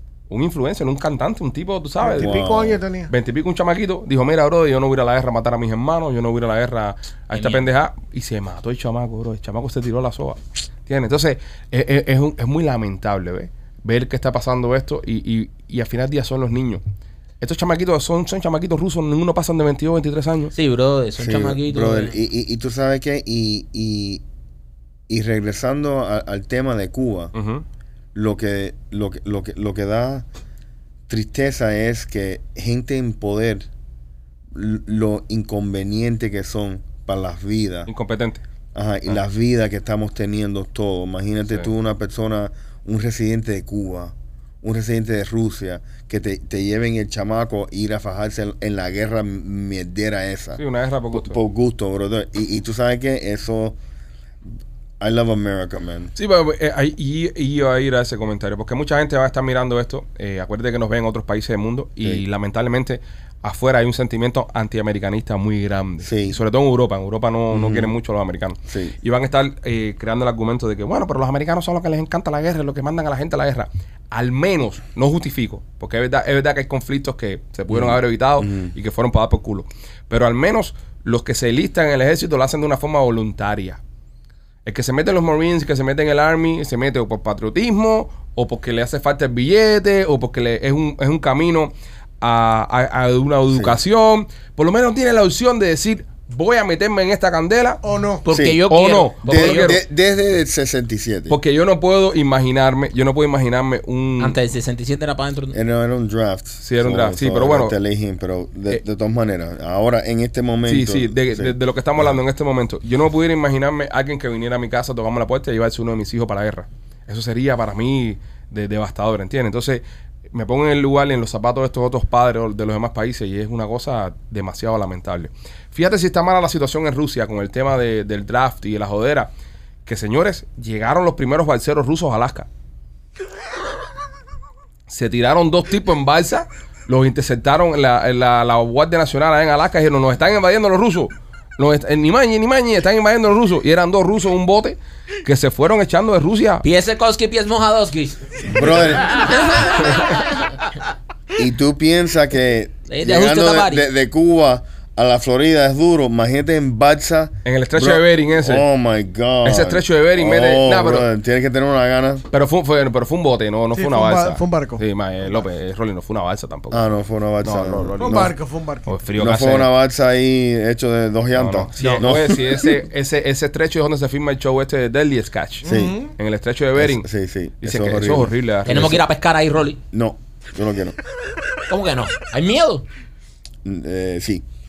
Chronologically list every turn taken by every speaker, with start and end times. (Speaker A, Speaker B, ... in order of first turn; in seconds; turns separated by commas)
Speaker A: 0.3-2.5, Speaker B: 2.0-3.1, Speaker C: 2.2-2.8, Speaker A: 3.1-16.8, Speaker D: 7.3-7.7, Speaker A: 17.4-20.5, Speaker D: 20.5-22.1, Speaker C: 21.2-24.2, Speaker C: 25.1-27.3, Speaker A: 27.4-27.6, Speaker C: 28.1-30.3, Speaker C: 31.1-33.7, Speaker C: 34.5-37.9, Speaker A: 37.9-38.4, Speaker C: 38.7-53.8, Speaker A: 50.6-51.4, Speaker C: 55.0-56.1, Speaker A: 56.2-83.8, Speaker C: 66.0-66.4, Speaker C: 67.5-67.9, Speaker C: 68.7-68.9, Speaker C: 77.7-78.7, Speaker A: 84.7-97.8, Speaker C: 93.5-93.8, Speaker B: 97.8-98.2, Speaker D: 98.2-99.8, Speaker C: 98.3-98.6, Speaker A: 98.7-99.8, Speaker C: 99.3-101.4, Speaker A: 101.3-104.4, Speaker D: 104.2-105.6, Speaker C: 105.5-111.5, Speaker A: 106.6-107.7, Speaker A: 110.7-129.3, Speaker A: 129.9-132.5, Speaker A: 134.9-146.6, Speaker D: 146.6-148.8, Speaker C: 148.5-149.2, Speaker C: 151.3-162.3, Speaker D: 152.9-153.8, Speaker A: 157.4-158.7, Speaker A: 159.4-161.1, Speaker A: 162.3-168.3, Speaker B: 163.8-164.8, Speaker C: 166.7-168.3, Speaker B: 168.0-168.9, Speaker A: 168.9-169.7, Speaker C: 169.2-172.7, Speaker A: 171.3-177.1, Speaker B: 175.6-176.1, Speaker C: 175.7-176.0, Speaker C: 176.8-179.0, Speaker A: 177.6-179.0, Speaker D: 178.7-179.8, Speaker C: 179.9-181.0, Speaker D: 181.7-182.9, Speaker C: 183.7-184.4